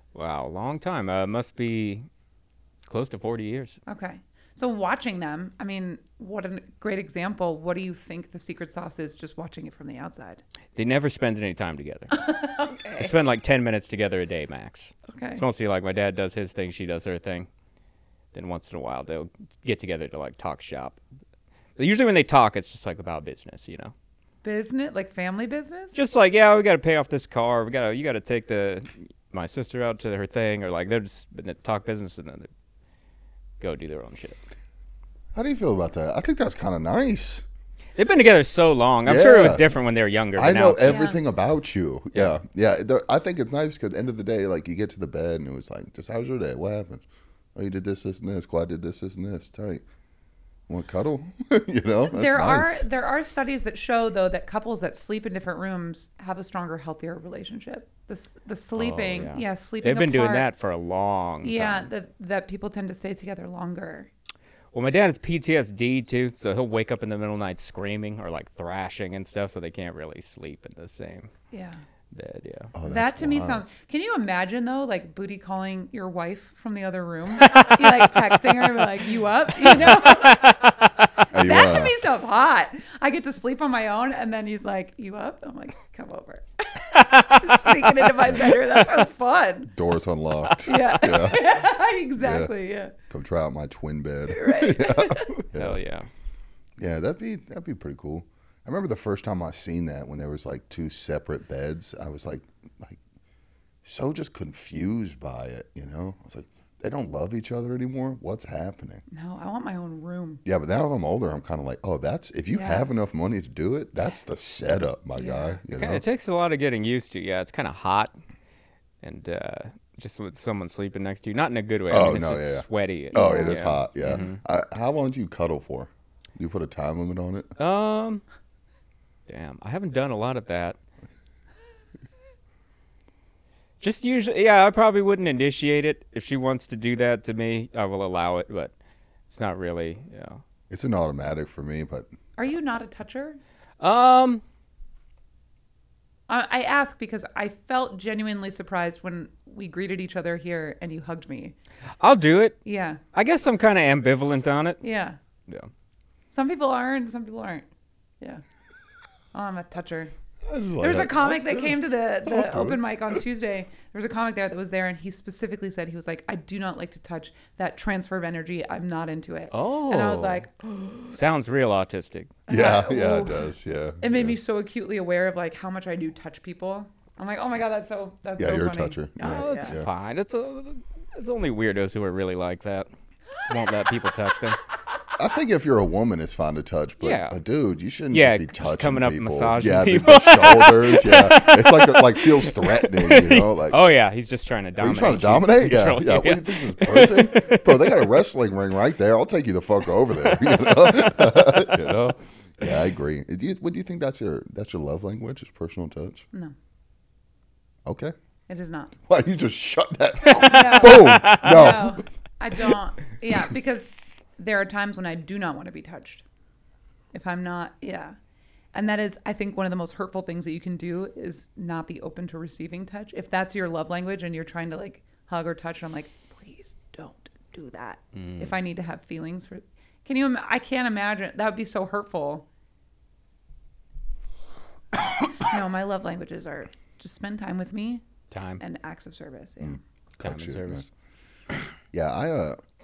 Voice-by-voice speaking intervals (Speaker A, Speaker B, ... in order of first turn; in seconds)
Speaker A: 0.1-2.1, 2.9-3.8, 10.8-12.2, 13.0-17.5, 18.3-21.0, 21.8-23.9, 25.9-32.5, 33.6-34.4, 38.0-41.1, 58.8-61.9, 64.7-71.3, 72.1-72.7, 77.4-78.8, 79.6-81.1, 86.9-88.7, 95.5-96.1, 115.7-118.2, 119.0-124.4, 127.6-128.2, 129.3-130.8, 133.8-138.7, 139.3-140.4, 143.8-144.4, 152.0-152.6, 153.1-154.8, 169.5-170.4, 171.1-172.4, 179.2-182.9, 183.4-184.6, 187.0-187.4, 188.1-198.1, 210.9-211.6, 228.2-228.5, 238.3-238.6, 240.2-240.9
Speaker B: 3.9-10.4, 12.1-13.1, 15.1-15.4, 24.4-26.0, 40.8-41.2, 52.1-60.5, 61.4-64.1, 71.5-71.8, 72.8-80.8, 81.3-89.7, 90.7-92.9, 94.3-95.3, 109.1-110.4, 112.5-112.9, 115.2-115.6, 123.1-123.6, 142.4-143.4, 146.3-151.6, 152.7-153.0, 154.8-155.2, 156.3-157.7, 159.3-160.1, 160.8-171.1, 172.5-179.8, 208.5-209.0, 210.4-216.2, 217.1-218.2, 218.7-232.5, 235.3-238.0, 238.6-239.8
Speaker C: 35.3-37.4, 39.0-39.8, 40.4-49.8, 50.7-52.9, 72.7-73.6, 81.3-82.0, 89.7-91.6, 92.2-92.5, 93.1-95.8, 96.8-103.0, 103.8-109.0, 110.5-116.0, 121.9-127.5, 140.7-142.1, 160.4-162.8, 172.5-174.4, 178.4-179.9, 185.2-193.9, 194.8-206.3, 207.8-208.1, 209.1-212.0, 239.6-240.9, 241.9-242.6